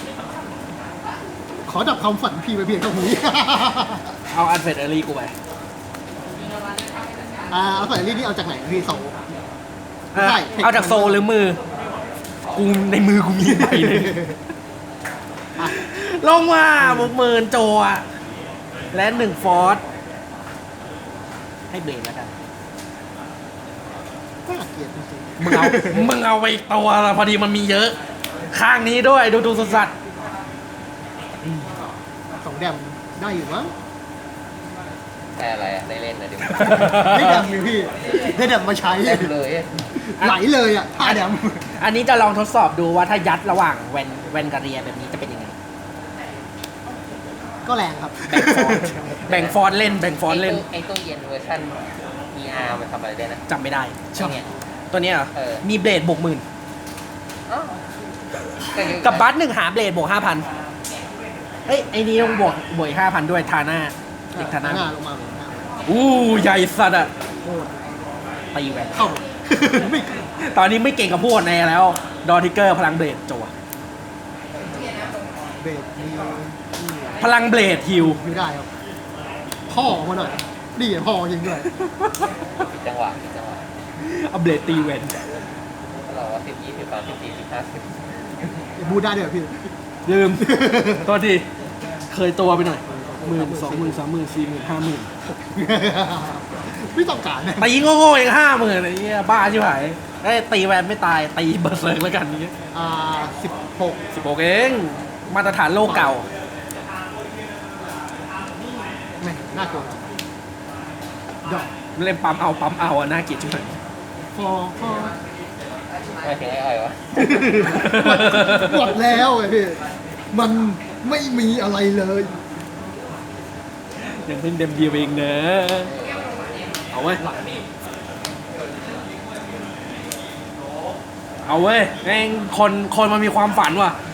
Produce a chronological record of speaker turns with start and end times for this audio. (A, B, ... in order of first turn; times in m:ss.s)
0:01.6-0:04.1 A
0:04.3-0:05.3 B
0:07.5-0:09.2 A
0:10.1-0:11.6 B
0:10.2-0:11.2 A
0:12.5-0:14.3 B
0:13.4-0:14.4 A
0:15.7-0:18.0 B
0:16.8-0:17.1 A
0:18.9-0:19.8 B
0:21.7-0:22.3 B
0:24.5-0:26.1 A
0:25.4-0:28.0 B
0:28.5-0:29.9 B
0:32.4-0:33.7 A
0:35.4-0:36.9 C
0:36.5-0:37.5 B
0:36.7-0:39.3 A
0:39.0-0:39.9 C
0:39.9-0:41.7 A
0:41.0-0:45.5 B
0:47.7-0:49.1 A
0:48.3-0:50.6 B
0:49.3-0:49.6 C
0:50.3-0:53.4 C
0:53.5-0:54.3 B
0:54.2-0:54.4 C
0:54.2-0:54.4 A
0:54.9-0:56.4 B
0:55.4-0:55.6 C
0:57.5-0:57.8 C
0:58.7-0:59.3 C
0:58.8-1:00.5 B
1:01.7-1:04.9 B
1:04.4-1:05.7 A
1:05.9-1:07.1 B
1:07.4-1:07.9 A
1:08.5-1:09.0 B
1:08.9-1:10.1 A
1:09.8-1:13.5 B
1:14.8-1:15.0 A
1:15.6-1:17.2 A
1:17.2-1:18.2 B
1:18.1-1:18.7 A
1:19.7-1:21.7 A
1:21.8-1:22.1 B
1:22.7-1:23.6 C
1:24.0-1:25.3 B
1:26.1-1:28.1 C
1:28.8-1:29.7 A
1:30.1-1:31.5 B
1:30.4-1:31.1 A
1:32.1-1:35.1 B
1:32.9-1:34.0 A
1:35.2-1:37.7 A
1:37.6-1:42.5 B
1:42.7-1:44.0 A
1:44.1-1:46.3 B
1:45.8-1:46.2 A
1:49.2-1:50.0 A
1:52.0-1:53.8 B
1:54.4-1:55.2 A
1:56.2-1:57.6 C
1:57.2-1:59.8 A
1:57.6-1:58.9 B
2:00.3-2:02.3 A
2:04.2-2:05.9 B
2:05.9-2:06.2 C
2:06.9-2:07.2 B
2:07.2-2:07.6 A
2:11.4-2:14.0 B